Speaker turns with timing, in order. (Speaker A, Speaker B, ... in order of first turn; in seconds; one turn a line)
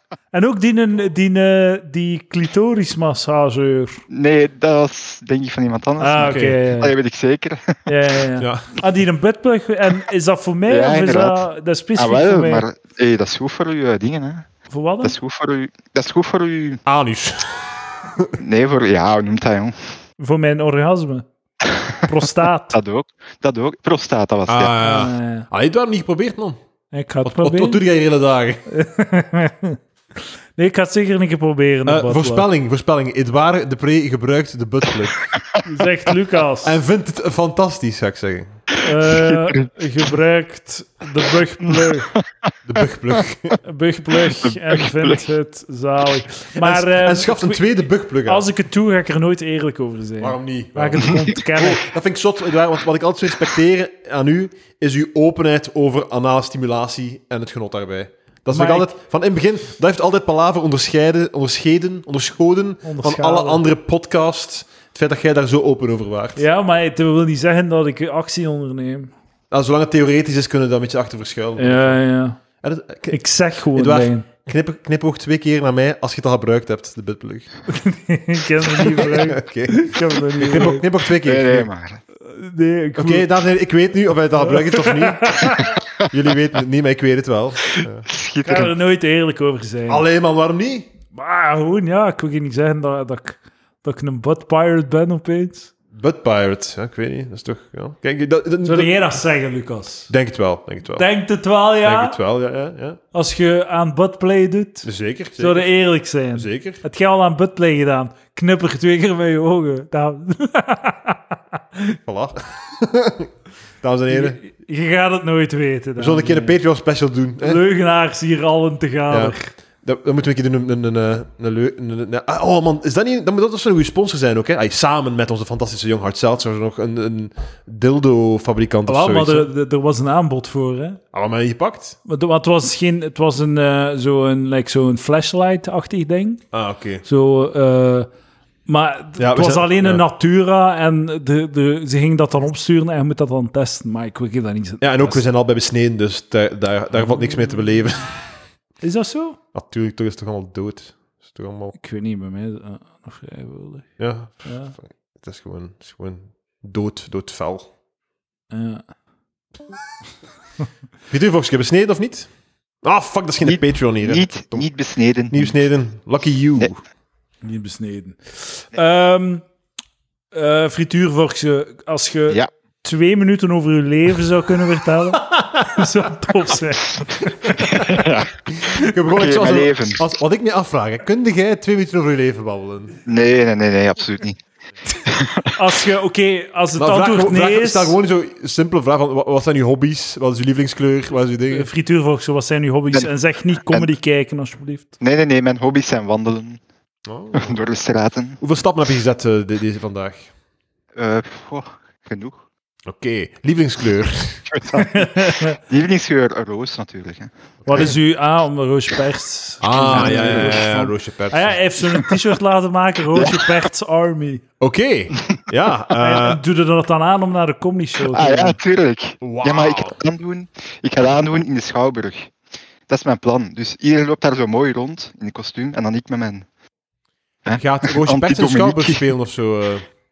Speaker A: 0.3-4.0
Speaker B: 4.1-7.9
Speaker A: 6.0-6.9
Speaker C: 6.2-6.6
Speaker A: 7.9-12.7
Speaker C: 8.4-8.7
Speaker B: 10.7-14.5
Speaker A: 14.7-15.2
Speaker B: 15.0-16.8
Speaker C: 16.9-18.3
Speaker B: 18.4-19.8
Speaker A: 20.2-21.2
Speaker B: 21.7-22.1
Speaker A: 22.1-22.8
Speaker B: 22.7-24.8
Speaker C: 24.5-26.6
Speaker A: 24.8-25.5
Speaker A: 26.9-27.8
Speaker C: 27.2-28.6
Speaker A: 28.7-29.8
Speaker A: 30.6-32.5
Speaker C: 31.8-35.3
Speaker A: 35.6-36.8
Speaker C: 36.6-38.6
Speaker A: 38.8-42.1
Speaker B: 39.1-39.7
Speaker B: 41.6-42.5
Speaker C: 42.6-43.5
Speaker B: 43.1-43.5
Speaker A: 43.6-51.9
Speaker B: 44.3-45.3
Speaker C: 46.5-48.5
Speaker C: 50.2-66.4
Speaker A: 58.5-58.9
Speaker A: 62.8-63.6
Speaker A: 66.4-69.1
Speaker C: 69.5-72.0
Speaker A: 71.6-72.4
Speaker C: 72.6-77.5
Speaker A: 73.1-74.3
Speaker A: 77.7-80.8
Speaker C: 78.7-81.7
Speaker B: 81.2-82.0
Speaker A: 82.2-83.3
Speaker C: 83.0-88.0
Speaker A: 84.4-85.8
Speaker B: 87.8-88.7
Speaker A: 88.4-90.0
Speaker C: 89.9-90.9
Speaker A: 91.1-95.7
Speaker C: 95.9-98.9
Speaker A: 98.6-100.1
Speaker C: 100.1-101.1
Speaker A: 101.0-102.2
Speaker C: 101.8-103.0
Speaker A: 103.1-112.0
Speaker C: 104.8-105.7
Speaker C: 106.3-106.8
Speaker C: 112.0-114.4
Speaker A: 114.1-116.6
Speaker C: 116.0-117.6
Speaker A: 117.4-119.5
Speaker C: 119.1-129.5
Speaker A: 128.9-131.0
Speaker C: 131.1-131.9
Speaker A: 132.1-136.4
Speaker C: 136.5-137.1
Speaker A: 137.1-138.1
Speaker A: 138.7-145.2
Speaker C: 139.2-140.0
Speaker C: 144.8-148.3
Speaker A: 146.9-147.8
Speaker A: 148.8-149.4
Speaker C: 149.5-151.7
Speaker A: 151.7-154.7
Speaker C: 154.0-157.7
Speaker A: 158.5-158.8
Speaker C: 161.1-162.3
Speaker C: 162.8-164.7
Speaker B: 163.4-165.6
Speaker C: 165.3-166.8
Speaker A: 167.4-169.4
Speaker A: 170.3-177.9
Speaker C: 175.2-175.9
Speaker B: 177.6-178.5
Speaker C: 178.5-183.0
Speaker B: 179.1-180.1
Speaker B: 183.1-184.4
Speaker B: 185.1-185.6
Speaker A: 185.6-187.9
Speaker C: 186.8-191.7
Speaker A: 191.5-194.9
Speaker B: 192.9-193.9
Speaker B: 195.0-196.6
Speaker C: 197.1-197.6
Speaker B: 197.4-198.4
Speaker C: 198.4-200.3
Speaker B: 200.9-202.4
Speaker C: 202.9-204.5
Speaker B: 204.5-207.9
Speaker A: 204.7-205.6
Speaker C: 207.6-207.9
Speaker A: 207.7-214.4
Speaker C: 209.6-211.6
Speaker B: 209.9-210.6
Speaker B: 213.1-213.6
Speaker C: 214.6-216.4
Speaker A: 215.9-218.6
Speaker B: 218.1-222.3
Speaker C: 219.2-220.0
Speaker B: 222.9-226.5
Speaker B: 227.4-229.1
Speaker C: 227.5-229.9